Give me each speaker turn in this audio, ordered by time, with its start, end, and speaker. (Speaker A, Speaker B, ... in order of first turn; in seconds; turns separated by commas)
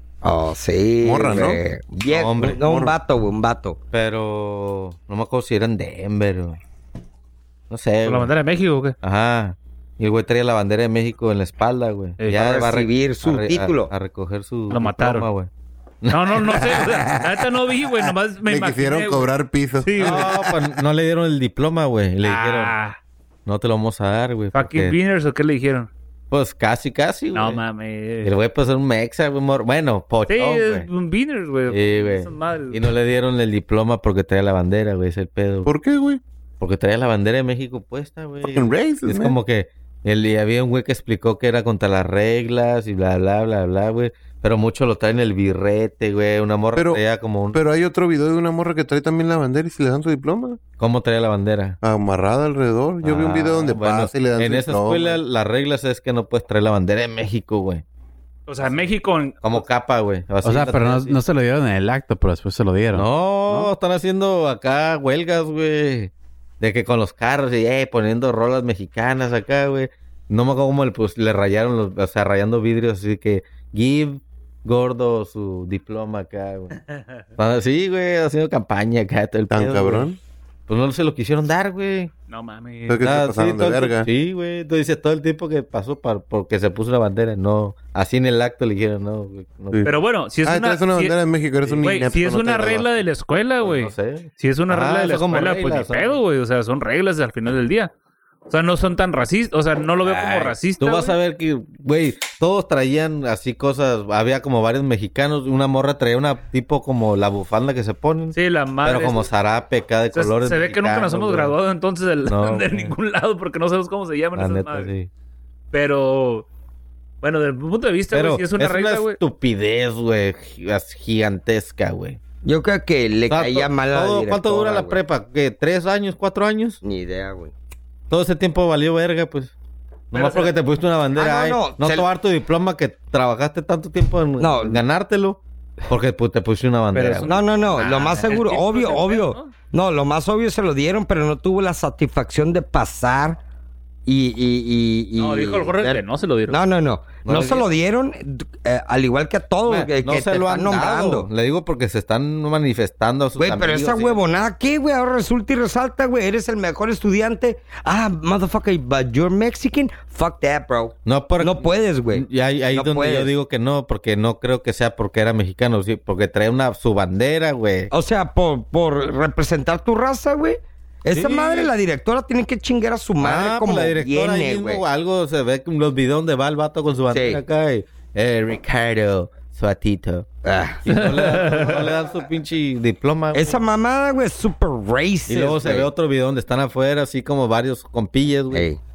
Speaker A: 0.2-3.8, Speaker B: 1.0-1.6, Speaker C: 2.1-2.6, Speaker B: 2.4-3.0, Speaker C: 3.9-6.6, Speaker C: 7.7-8.3, Speaker D: 8.0-8.9, Speaker C: 9.0-15.5, Speaker D: 12.2-12.4, Speaker A: 12.3-13.9, Speaker D: 14.7-15.3, Speaker C: 16.0-17.1, Speaker D: 16.1-20.6, Speaker B: 18.4-20.2, Speaker C: 20.0-22.7, Speaker D: 22.2-23.0, Speaker C: 23.4-25.0, Speaker D: 24.5-25.9, Speaker C: 26.3-27.6, Speaker D: 27.3-28.3, Speaker C: 28.2-30.9, Speaker D: 30.3-32.9, Speaker C: 31.7-35.7, Speaker B: 35.6-36.2, Speaker C: 36.6-47.6, Speaker B: 38.5-39.4, Speaker B: 46.7-47.0, Speaker B: 47.5-50.6, Speaker C: 50.8-51.8, Speaker B: 51.8-55.2, Speaker C: 53.0-57.8, Speaker D: 58.5-59.6, Speaker C: 59.4-61.1, Speaker E: 60.4-63.7, Speaker C: 62.9-76.8, Speaker D: 76.7-77.0, Speaker C: 77.4-80.1, Speaker B: 79.5-80.2, Speaker C: 80.7-82.1, Speaker D: 82.3-83.1, Speaker B: 82.9-84.1, Speaker C: 83.0-89.9, Speaker D: 89.8-91.2, Speaker B: 90.4-93.0, Speaker C: 91.6-92.1, Speaker D: 91.8-97.9, Speaker C: 93.6-96.2, Speaker D: 98.5-101.2, Speaker C: 100.0-111.5, Speaker D: 108.3-109.3, Speaker D: 110.1-114.9, Speaker C: 112.2-112.9, Speaker C: 114.3-115.1, Speaker D: 115.7-116.5, Speaker D: 117.2-119.2, Speaker C: 118.1-122.2, Speaker A: 122.4-125.0, Speaker C: 123.3-126.8, Speaker A: 126.8-127.5, Speaker C: 128.1-129.5, Speaker C: 130.1-138.0, Speaker D: 130.1-130.5, Speaker A: 131.2-132.1, Speaker A: 134.4-134.8, Speaker D: 136.9-139.5, Speaker A: 137.2-143.4, Speaker A: 144.1-151.3, Speaker D: 145.2-146.6, Speaker C: 147.2-147.7, Speaker C: 149.6-154.2, Speaker A: 153.4-163.3, Speaker C: 161.1-167.9, Speaker A: 167.9-174.8, Speaker C: 171.1-171.7, Speaker C: 173.2-180.3, Speaker A: 177.1-177.4, Speaker A: 180.4-181.1, Speaker C: 180.8-183.6, Speaker D: 180.9-181.8, Speaker A: 183.3-185.9, Speaker C: 185.3-188.7, Speaker A: 188.5-188.8